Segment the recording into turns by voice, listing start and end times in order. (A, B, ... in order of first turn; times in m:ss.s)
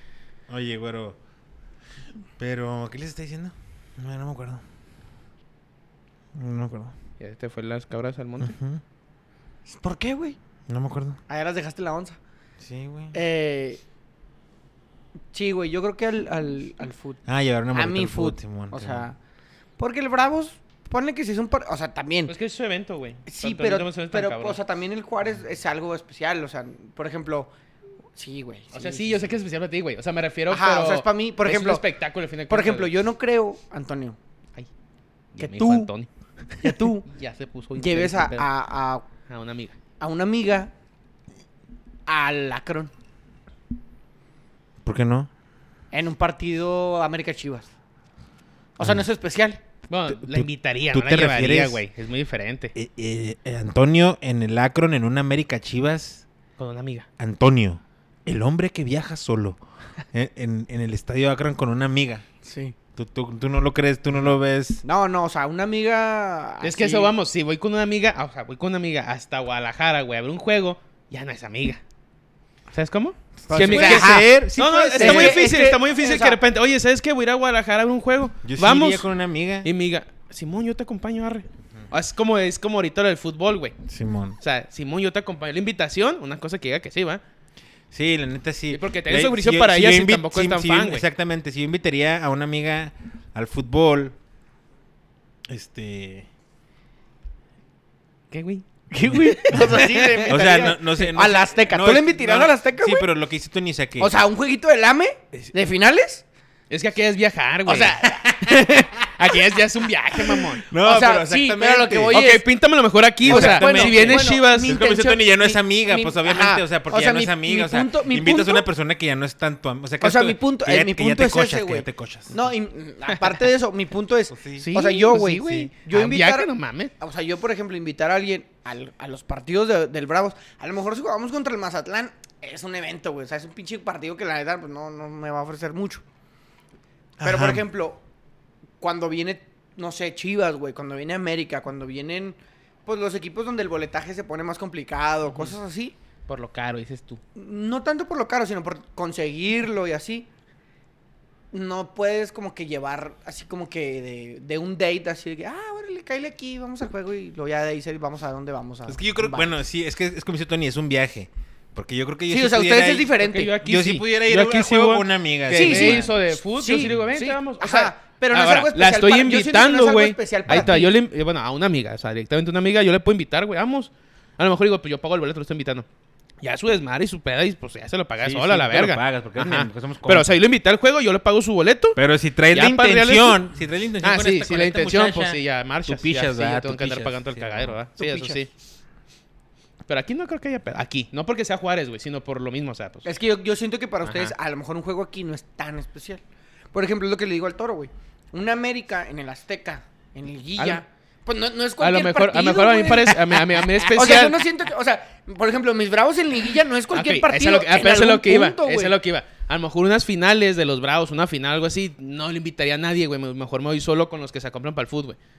0:00.5-0:01.2 A
0:02.4-0:04.6 A
0:06.3-0:06.9 A
0:07.2-0:08.6 B
0:08.4-0:08.8 A
0:09.7-0:10.4 C
0:10.7-0:11.2 A
0:11.3-0:12.2 C
0:12.6-0:13.2 A
0:13.1-0:13.8 C
0:15.3-0:17.2 C
0:17.2-0:19.1 A
0:17.7-0:19.2 C
0:19.8-0:22.3 C
0:22.3-0:24.6 B
0:23.3-0:27.5 C
0:28.1-0:29.2 C
0:28.7-0:32.9 B
0:30.5-0:31.8 C
0:32.5-0:34.2 C
0:35.3-0:38.5 B
0:35.4-0:35.9 C
0:36.6-0:37.1 C
0:37.8-0:39.0 C
0:39.3-0:39.8 B
0:40.0-0:40.7 C
0:42.1-0:42.9 C
0:44.8-0:45.3 A
0:45.9-0:47.7 C
0:48.8-0:49.6 C
0:48.8-0:49.0 A
0:49.9-0:52.7 B
0:50.1-0:51.8 A
0:52.7-0:56.2 A
0:56.6-0:57.1 B
0:57.2-0:59.6 A
1:00.1-1:02.2 A
1:02.4-1:02.7 C
1:03.0-1:04.8 A
1:04.8-1:07.1 C
1:06.6-1:11.8 B
1:12.7-1:19.1 B
1:13.5-1:15.4 A
1:13.5-1:14.4 C
1:14.9-1:16.4 C
1:18.4-1:19.7 A
1:19.6-1:23.7 B
1:23.9-1:24.4 A
1:24.4-1:27.2 B
1:27.9-1:34.2 A
1:28.7-1:31.0 B
1:35.5-1:36.3 A
1:38.3-1:38.7 B
1:38.9-1:43.1 C
1:39.1-1:44.1 A
1:39.2-1:40.8 B
1:44.0-1:46.2 C
1:46.7-1:50.6 B
1:47.6-1:48.0 C
1:48.0-1:48.7 A
1:50.7-1:52.2 A
1:50.8-1:52.4 C
1:52.1-1:54.8 B
1:53.2-2:02.4 A
1:53.3-1:58.6 C
2:00.0-2:16.0 C
2:04.3-2:05.7 A
2:04.6-2:06.9 B
2:17.2-2:17.6 A
2:17.2-2:18.0 C
2:18.8-2:25.9 C
2:25.3-2:25.6 B
2:26.3-2:27.2 B
2:27.4-2:30.3 C
2:31.5-2:39.5 C
2:38.8-2:46.1 A
2:42.3-2:43.6 C
2:43.1-2:55.8 B
2:45.5-2:50.9 C
2:56.4-3:02.0 B
2:58.2-3:00.4 A
3:02.0-3:07.8 A
3:02.5-3:03.4 B
3:04.0-3:08.5 B
3:08.0-3:08.4 C
3:09.9-3:13.1 B
3:13.0-3:23.4 C
3:14.0-3:14.3 B
3:21.8-3:24.4 B
3:23.9-3:28.9 C
3:26.9-3:35.2 B